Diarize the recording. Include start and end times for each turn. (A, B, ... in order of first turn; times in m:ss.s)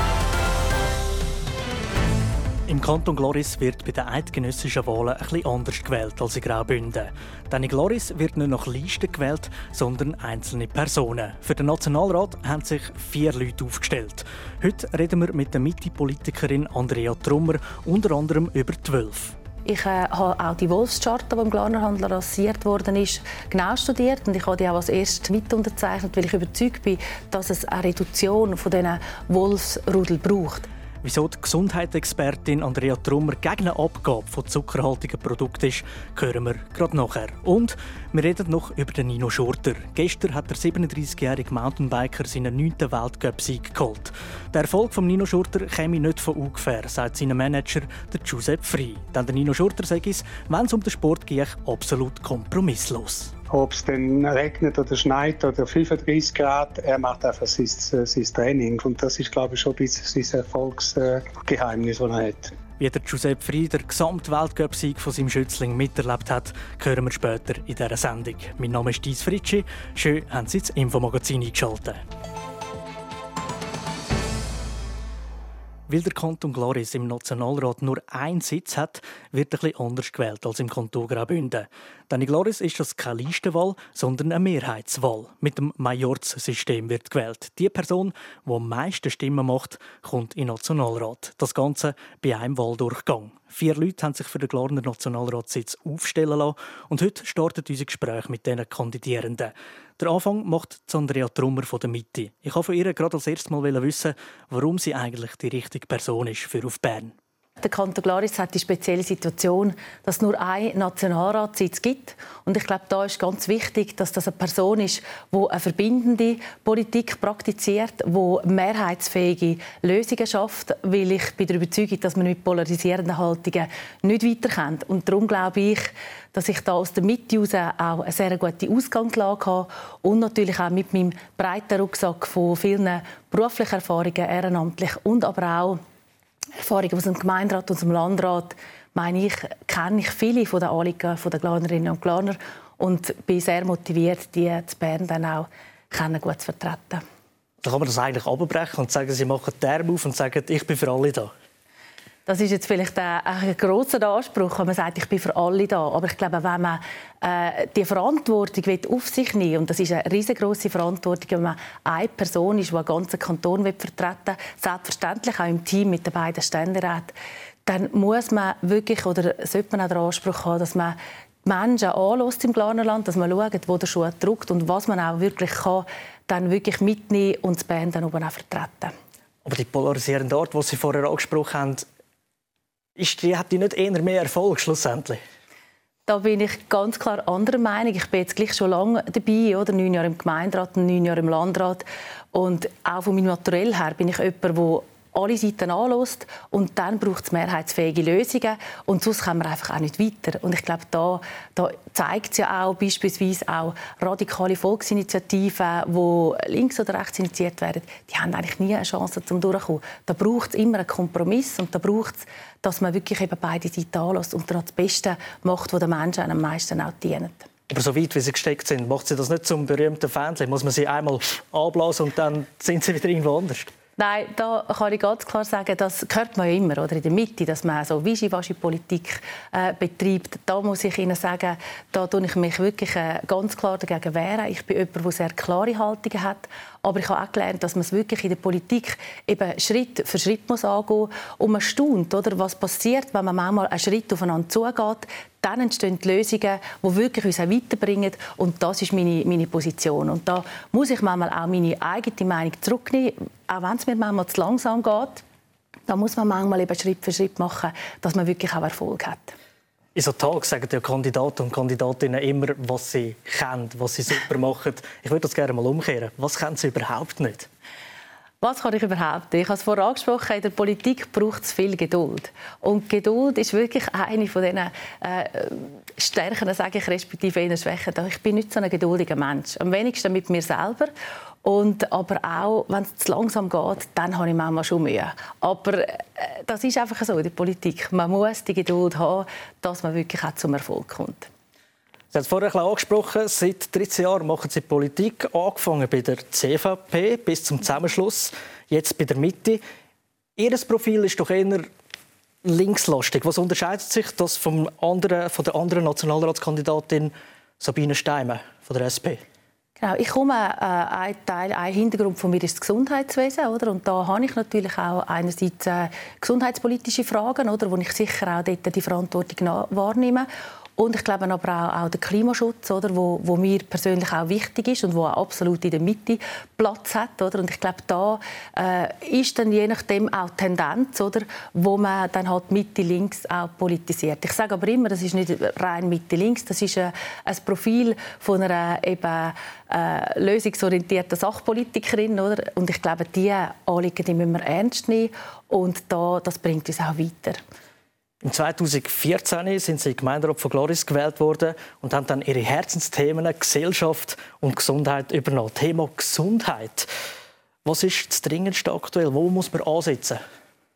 0:02.7-0:19.3 A
0:19.6-0:30.7 B
0:31.0-0:53.3 A
0:53.5-1:02.5 C
1:02.8-1:12.0 A
1:15.9-1:47.1 A
1:47.6-2:15.8 B
2:16.6-2:27.0 B
2:27.6-2:31.3 A
2:32.2-2:47.1 B
2:47.6-2:58.9 B
2:59.4-3:01.8 A
3:03.0-3:05.2 A
3:06.1-3:37.5 B
3:37.7-3:43.7 A
3:44.0-4:15.2 B
4:15.9-4:19.3 B
4:19.9-4:27.5 A
4:28.4-4:40.9 B
4:41.4-4:51.3 B
4:52.1-4:59.6 A
5:00.4-5:01.7 A
5:02.4-5:09.2 A
5:09.8-5:47.4 B
5:48.2-5:56.9 A
5:57.6-6:00.2 A